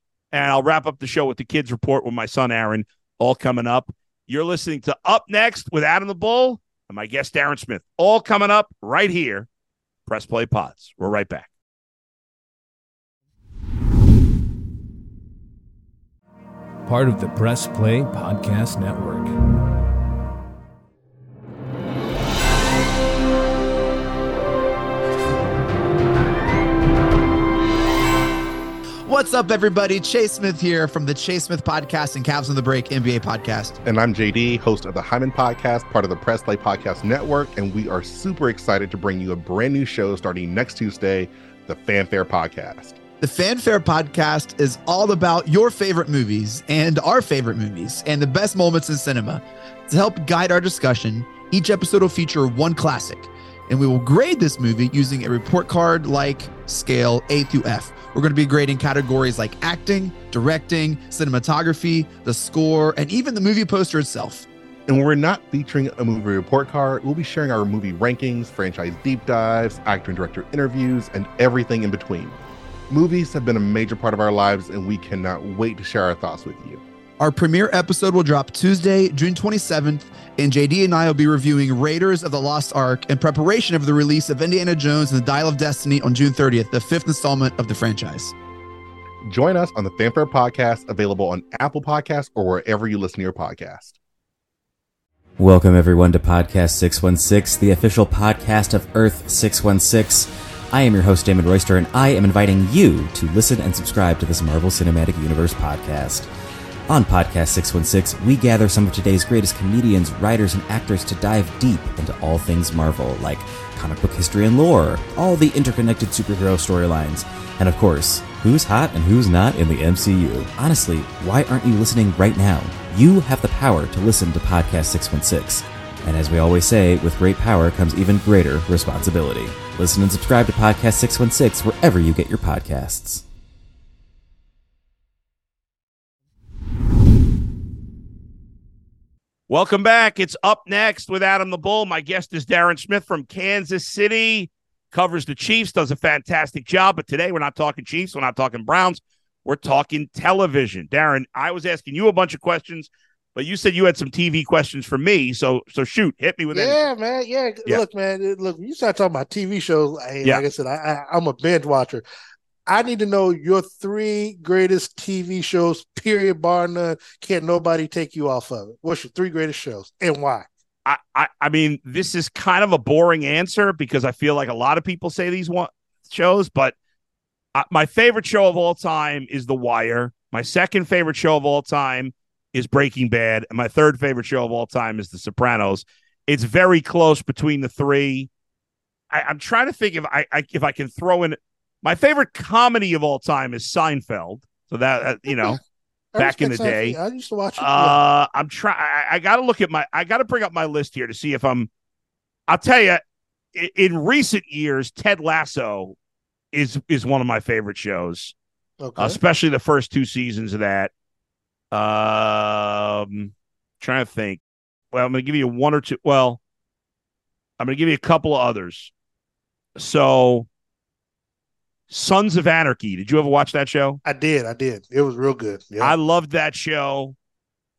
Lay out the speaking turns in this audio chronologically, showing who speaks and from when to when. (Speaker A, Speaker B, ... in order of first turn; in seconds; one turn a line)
Speaker A: 0.3-9.5
Speaker A: 10.1-11.5
Speaker B: 16.9-19.3
Speaker C: 29.1-33.8
Speaker D: 33.9-43.0
Speaker C: 43.2-64.5
Speaker D: 64.9-72.4
Speaker D: 72.9-76.8
Speaker C: 77.2-88.3
Speaker D: 89.3-94.0
Speaker E: 95.4-106.3
Speaker E: 106.9-133.2
Speaker A: 139.5-156.9
Speaker F: 156.5-162.0
Speaker F: 162.7-170.5
Speaker A: 170.9-176.8
Speaker A: 177.6-188.3
Speaker A: 189.1-195.6
Speaker F: 195.3-195.6
Speaker F: 196.1-198.0
Speaker A: 196.2-197.0
Speaker A: 197.6-201.7
Speaker A: 202.5-203.0
Speaker A: 203.6-206.0
Speaker A: 206.5-208.3
Speaker F: 208.8-209.2
Speaker A: 209.0-210.9
Speaker A: 211.7-214.4
Speaker A: 214.9-216.4
Speaker A: 217.6-218.9
Speaker A: 219.8-220.5
Speaker A: 221.9-224.0
Speaker F: 224.1-225.9
Speaker A: 225.8-227.2